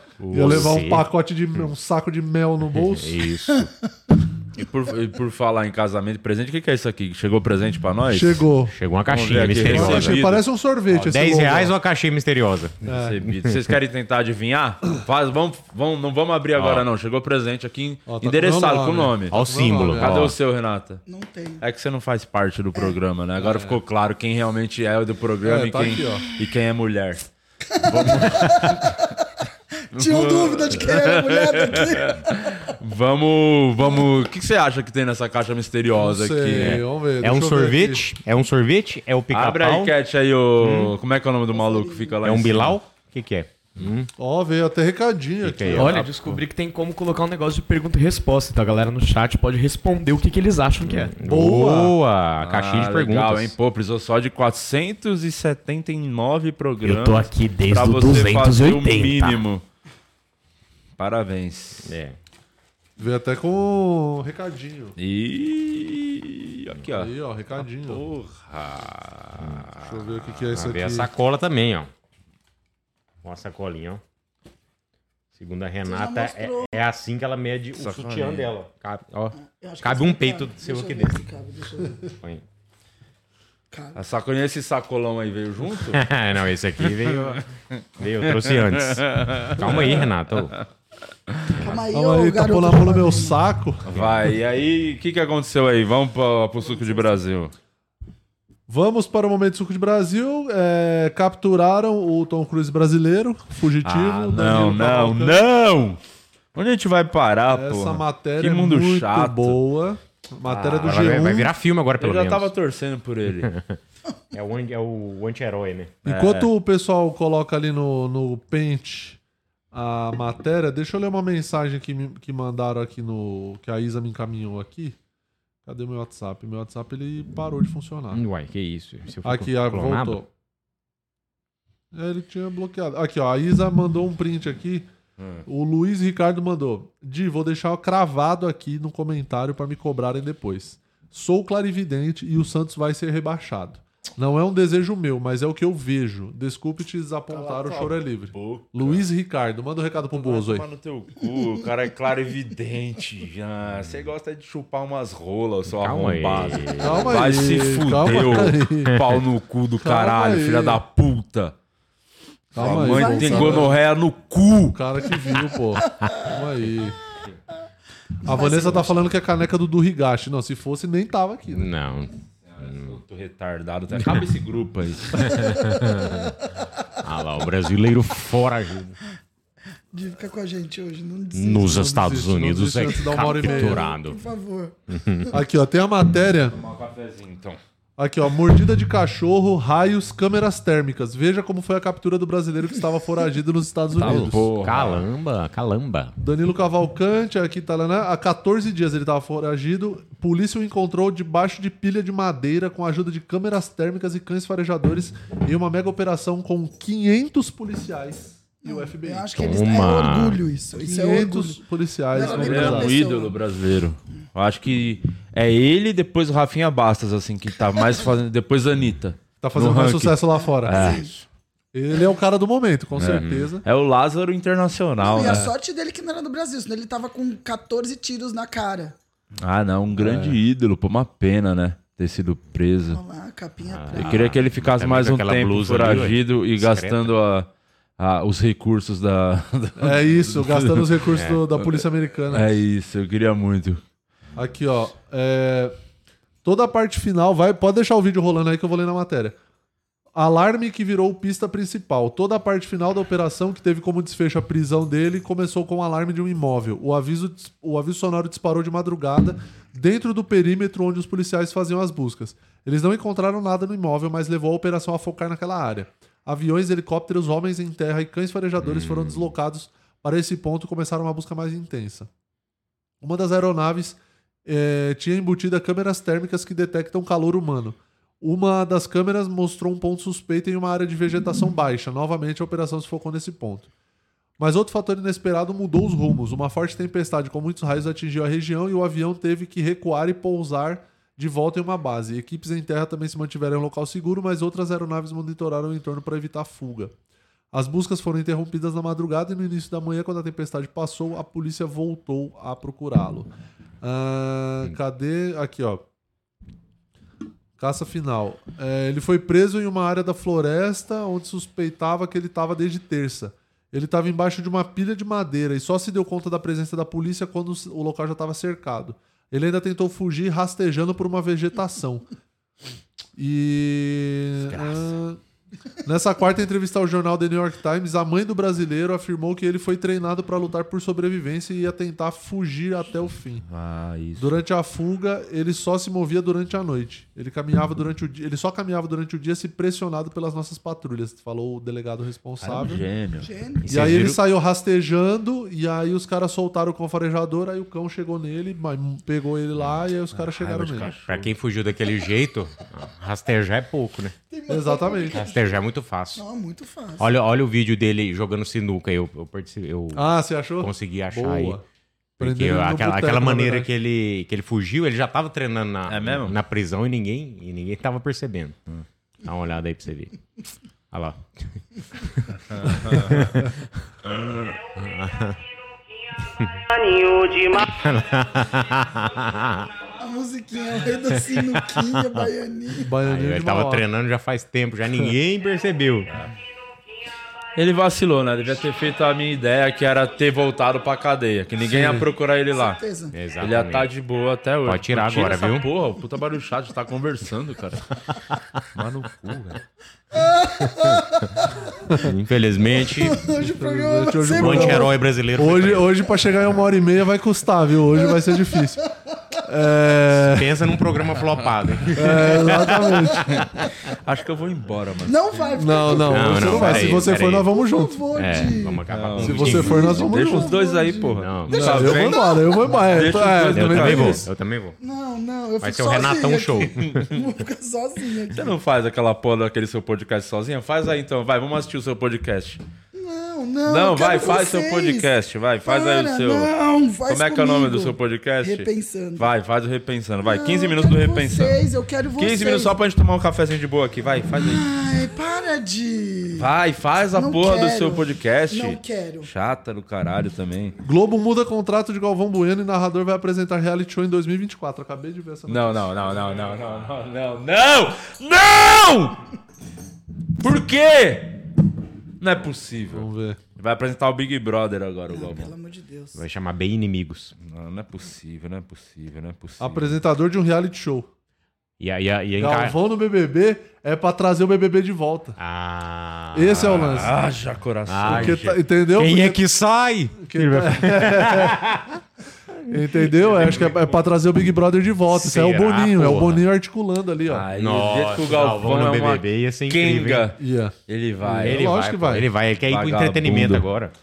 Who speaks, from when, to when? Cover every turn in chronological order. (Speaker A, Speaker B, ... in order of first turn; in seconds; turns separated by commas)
Speaker A: 0.2-1.1, Speaker B: 0.3-3.2, Speaker A: 2.9-3.7, Speaker C: 4.6-8.4, Speaker B: 8.1-8.7, Speaker A: 8.7-10.2, Speaker C: 9.1-10.4, Speaker B: 9.6-11.7, Speaker A: 10.9-13.6, Speaker B: 12.8-13.2, Speaker C: 12.9-21.0, Speaker B: 18.1-20.3, Speaker A: 19.3-20.4, Speaker D: 21.1-21.6, Speaker C: 21.6-27.3, Speaker B: 23.4-23.8, Speaker B: 25.4-26.3, Speaker D: 27.7-28.9, Speaker C: 27.9-28.7, Speaker C: 29.9-36.8, Speaker D: 29.9-32.6, Speaker B: 35.9-38.0, Speaker A: 36.5-39.9, Speaker C: 39.3-42.8, Speaker A: 40.6-40.9, Speaker D: 41.5-42.2, Speaker A: 42.2-44.1, Speaker B: 44.2-46.0, Speaker A: 45.4-46.1, Speaker E: 45.7-51.1, Speaker A: 50.9-53.5, Speaker B: 51.3-52.0, Speaker C: 52.4-59.6, Speaker E: 56.9-59.4, Speaker C: 61.0-61.9, Speaker A: 61.9-62.2, Speaker B: 63.0-65.0, Speaker C: 65.0-70.4, Speaker B: 66.9-68.0, Speaker B: 69.8-71.1, Speaker A: 70.5-71.9, Speaker A: 73.2-74.0, Speaker A: 75.3-81.2, Speaker D: 75.8-76.7, Speaker C: 77.8-78.5, Speaker D: 79.4-82.1, Speaker D: 83.7-84.0, Speaker C: 84.0-86.0, Speaker A: 85.9-87.4, Speaker A: 88.0-90.5, Speaker C: 88.5-90.1, Speaker D: 91.6-93.4, Speaker B: 91.9-93.9, Speaker C: 93.9-97.5, Speaker D: 96.6-97.0, Speaker B: 98.7-105.4, Speaker A: 103.9-104.5, Speaker C: 103.9-106.0, Speaker C: 106.5-109.6, Speaker B: 107.5-111.5, Speaker A: 110.5-112.5, Speaker C: 112.0-113.5, Speaker A: 113.4-113.8, Speaker A: 114.3-116.0, Speaker C: 116.0-116.5, Speaker B: 116.0-119.2, Speaker B: 119.7-125.0, Speaker B: 125.7-128.2, Speaker A: 128.1-130.2, Speaker B: 129.2-130.3, Speaker B: 131.9-134.9, Speaker C: 135.2-135.4, Speaker B: 135.5-150.7, Speaker C: 147.3-149.1, Speaker C: 150.1-161.6, Speaker A: 155.8-157.2, Speaker B: 156.8-159.0, Speaker A: 158.1-158.5, Speaker B: 159.8-160.8, Speaker B: 162.5-163.8, Speaker C: 162.6-164.8, Speaker D: 162.6-163.7, Speaker B: 164.7-167.0, Speaker B: 168.2-171.7, Speaker D: 168.3-169.1, Speaker A: 171.5-173.0, Speaker C: 172.4-175.3, Speaker A: 174.0-174.2, Speaker A: 175.2-176.4, Speaker A: 177.0-179.0, Speaker D: 179.9-181.9, Speaker A: 181.3-184.2, Speaker B: 181.7-183.8, Speaker D: 182.9-184.8, Speaker A: 184.9-185.3, Speaker B: 185.3-186.6, Speaker C: 186.5-187.6, Speaker B: 188.0-194.4, Speaker C: 194.0-195.1, Speaker A: 194.0-196.2, Speaker B: 196.2-209.3, Speaker D: 208.6-211.6, Speaker A: 209.4-210.4, Speaker B: 210.8-213.0, Speaker D: 212.1-213.3, Speaker C: 212.2-221.0, Speaker B: 219.4-221.0, Speaker D: 220.7-221.1, Speaker B: 221.7-223.6, Speaker C: 223.0-225.4, Speaker A: 223.0-223.5, Speaker D: 225.0-228.9, Speaker B: 225.2-225.5, Speaker C: 229.4-233.0, Speaker B: 230.0-230.4, Speaker D: 232.9-234.3, Speaker A: 233.7-237.1, Speaker C: 234.0-241.0, Speaker B: 239.8-242.5, Speaker A: 241.1-241.4, Speaker C: 242.3-243.8, Speaker B: 244.4-245.7, Speaker B: 246.4-249.4, Speaker B: 250.1-272.1, Speaker A: 268.6-269.3, Speaker B: 273.0-283.7, Speaker B: 284.4-296.9, Speaker B: 297.5-303.3, Speaker B: 303.8-305.8, Speaker B: 307.6-322.1, Speaker B: 323.2-325.2, Speaker B: 325.9-333.4, Speaker C: 333.5-334.3, Speaker B: 334.2-342.8, Speaker C: 342.4-343.3, Speaker D: 343.2-343.6, Speaker A: 343.6-344.2, Speaker B: 343.7-350.9, Speaker C: 350.1-351.3, Speaker A: 350.7-354.1, Speaker D: 354.3-355.6, Speaker B: 354.5-355.2, Speaker A: 355.1-356.2, Speaker D: 356.2-357.1, Speaker A: 357.0-360.1, Speaker B: 359.9-361.6, Speaker A: 360.6-361.6, Speaker B: 362.2-363.7, Speaker A: 362.2-368.6, Speaker C: 365.9-366.4, Speaker A: 369.2-370.1, Speaker A: 370.9-371.6, Speaker C: 372.5-373.2, Speaker A: 372.8-373.5, Speaker C: 374.1-374.5, Speaker A: 374.8-375.4, Speaker A: 376.3-376.6, Speaker A: 377.5-379.7, Speaker D: 380.0-382.9, Speaker B: 382.8-383.9, Speaker A: 383.1-386.1, Speaker C: 387.6-392.8, Speaker B: 391.6-392.1, Speaker D: 392.5-393.1, Speaker A: 393.1-393.9, Speaker C: 393.4-397.9, Speaker A: 394.7-395.7, Speaker C: 398.7-399.6, Speaker D: 400.1-401.4, Speaker A: 402.0-403.2, Speaker D: 403.0-404.9, Speaker B: 403.4-408.8, Speaker A: 404.3-405.9, Speaker D: 408.0-408.8, Speaker B: 409.4-410.6, Speaker A: 410.2-413.1, Speaker B: 411.9-413.2, Speaker C: 413.9-415.4, Speaker D: 415.1-418.8, Speaker B: 415.6-418.0, Speaker A: 416.1-417.5, Speaker A: 418.1-419.9, Speaker C: 418.9-422.2, Speaker B: 419.2-420.6, Speaker D: 419.6-422.8, Speaker A: 421.1-421.9, Speaker B: 421.5-424.3, Speaker C: 422.9-424.2, Speaker A: 423.5-424.8, Speaker D: 424.8-428.4, Speaker A: 425.6-426.8, Speaker C: 426.8-427.2, Speaker C: 428.3-432.6, Speaker D: 432.9-435.1, Speaker C: 433.7-436.5, Speaker D: 435.7-439.3, Speaker C: 437.1-441.6, Speaker D: 440.2-442.8, Speaker C: 442.2-444.6, Speaker D: 444.4-446.5, Speaker C: 446.4-450.8, Speaker D: 447.1-449.3, Speaker B: 450.8-455.9, Speaker C: 455.5-459.2, Speaker C: 460.4-461.4, Speaker C: 462.2-465.5, Speaker B: 462.9-463.4, Speaker D: 465.1-466.2, Speaker A: 466.1-467.3, Speaker C: 467.4-470.0, Speaker B: 469.6-471.1, Speaker A: 471.8-472.8, Speaker B: 472.4-475.4, Speaker A: 475.4-477.1, Speaker B: 476.3-477.1, Speaker C: 476.9-478.4, Speaker A: 477.9-481.9, Speaker B: 478.1-479.4, Speaker B: 480.2-481.6, Speaker B: 482.7-487.5, Speaker C: 483.2-484.0, Speaker A: 485.1-486.4, Speaker C: 487.3-491.7, Speaker A: 487.5-490.3, Speaker B: 490.4-492.3, Speaker A: 491.4-493.9, Speaker C: 492.7-493.7